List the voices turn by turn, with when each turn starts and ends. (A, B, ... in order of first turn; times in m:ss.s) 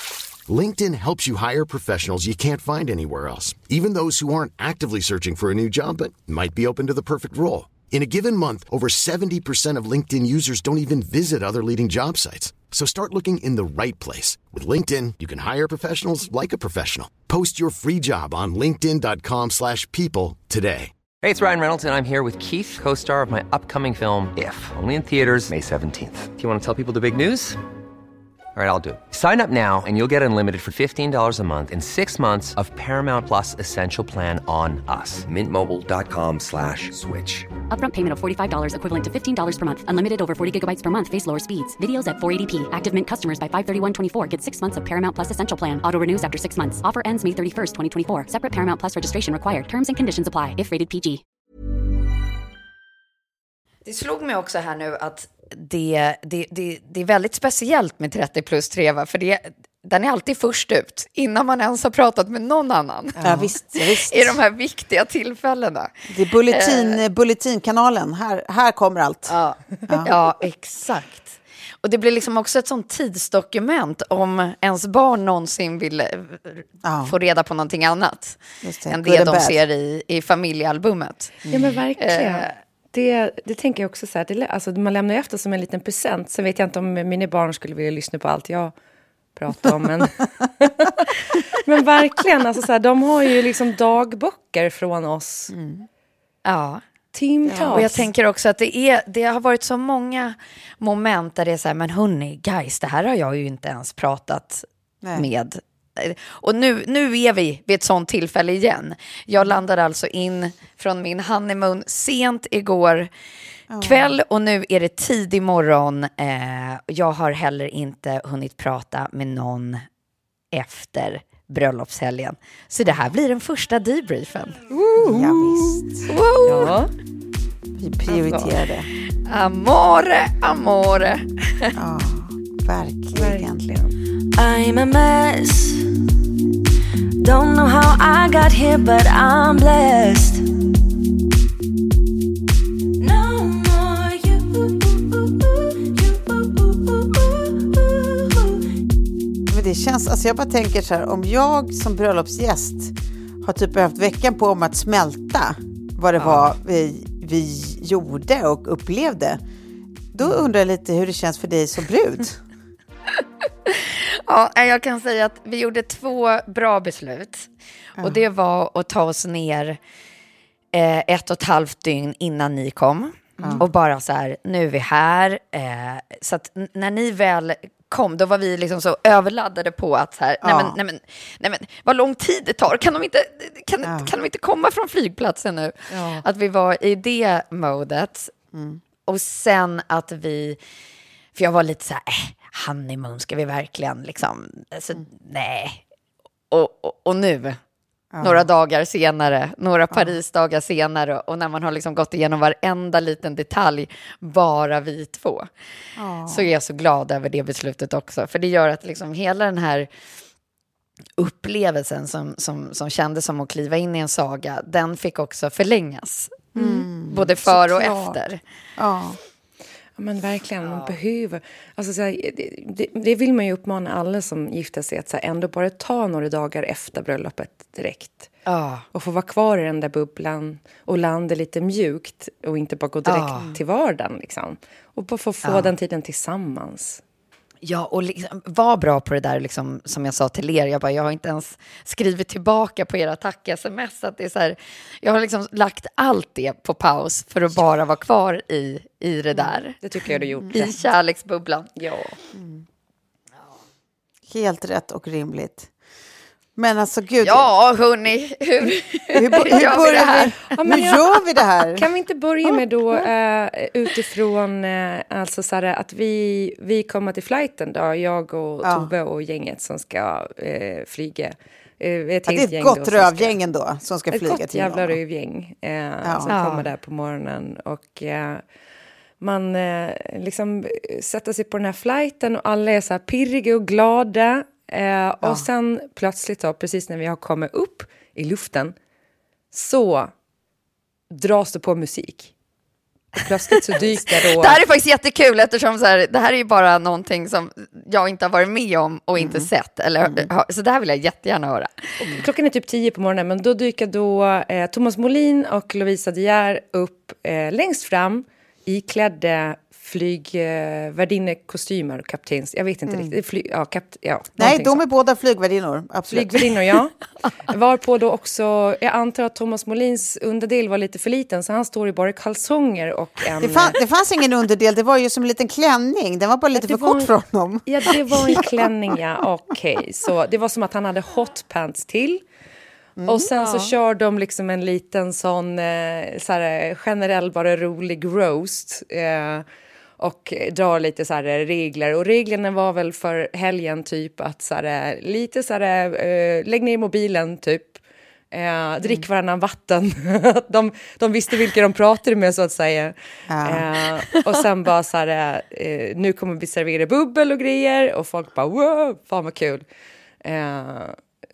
0:00.5-0:20.9 A
0:21.2-0:27.6 B
0:28.6-0:37.5 B
0:37.7-0:51.2 C
0:53.8-1:03.2 D
1:03.2-1:03.5 E
1:03.2-1:04.4 F
1:03.8-1:05.9 D
1:06.1-1:09.4 F
1:06.5-1:07.0 D
1:09.3-1:21.4 D
1:09.9-1:10.1 F
1:16.8-1:17.2 F
1:18.6-1:19.6 F
1:21.5-1:21.8 F
1:21.5-1:28.7 E
1:22.0-1:22.6 D
1:29.4-1:35.5 E
1:35.5-1:35.9 F
1:36.4-1:36.8 D
1:37.1-1:38.1 E
1:37.5-1:38.1 F
1:37.7-1:53.1 D
1:53.7-1:54.2 F
1:53.8-1:59.8 D
2:00.5-2:04.6 D
2:04.9-2:05.7 E
2:05.0-2:06.1 F
2:06.1-2:06.7 D
2:06.4-2:06.9 E
2:07.8-2:08.9 F
2:08.1-2:08.6 E
2:09.2-2:11.7 D
2:11.8-2:13.6 F
2:13.1-2:13.9 E
2:14.4-2:15.9 G
2:17.2-2:20.4 G
2:23.0-2:28.6 G
2:29.5-2:39.4 F
2:36.2-2:36.5 D
2:40.1-2:42.4 F
2:43.7-2:49.8 D
2:50.7-3:08.3 D
2:53.4-2:53.7 F
3:00.4-3:00.8 F
3:03.8-3:04.1 F
3:05.9-3:06.2 E
3:08.5-3:08.8 F
3:09.1-3:10.6 D
3:11.4-3:15.8 D
3:16.5-3:17.6 D
3:18.1-3:18.5 F
3:18.2-3:25.5 D
3:26.0-3:26.5 F
3:26.3-3:29.9 D
3:31.2-3:38.4 D
3:36.6-3:38.2 F
3:38.8-3:39.2 F
3:40.0-3:48.3 E
3:40.6-3:41.0 D
3:48.5-3:48.8 D
3:48.9-3:57.0 E
3:53.1-3:53.6 D
3:55.4-3:55.7 D
3:57.6-4:09.8 D
4:09.8-4:10.8 E
4:10.1-4:10.6 F
4:10.5-4:11.7 D
4:11.8-4:12.2 E
4:12.4-4:12.6 F
4:14.3-4:15.7 F
4:16.6-4:17.5 F
4:17.2-4:20.5 D
4:19.1-4:21.9 F
4:19.4-4:21.2 E
4:21.7-4:33.3 E
4:28.6-4:28.9 F
4:32.3-4:35.0 F
4:34.1-4:38.4 E
4:36.0-4:36.4 F
4:36.3-4:36.7 D
4:39.2-4:48.8 E
4:49.5-4:50.1 E
4:51.1-4:52.3 E
4:53.2-4:54.6 E
4:54.2-5:01.8 D
4:59.2-4:59.5 F
5:00.0-5:00.3 F
5:02.0-5:14.8 E
5:12.9-5:13.2 F
5:14.4-5:16.8 F
5:16.1-5:17.0 E
5:17.5-5:23.8 E
5:23.4-5:28.5 F
5:26.6-5:27.1 E
5:27.7-5:32.2 E
5:33.0-5:33.3 F
5:33.0-5:39.4 E
5:33.4-5:33.7 D
5:40.0-5:47.8 E
5:48.3-5:59.6 E
5:53.3-5:53.7 F
6:00.2-6:01.0 E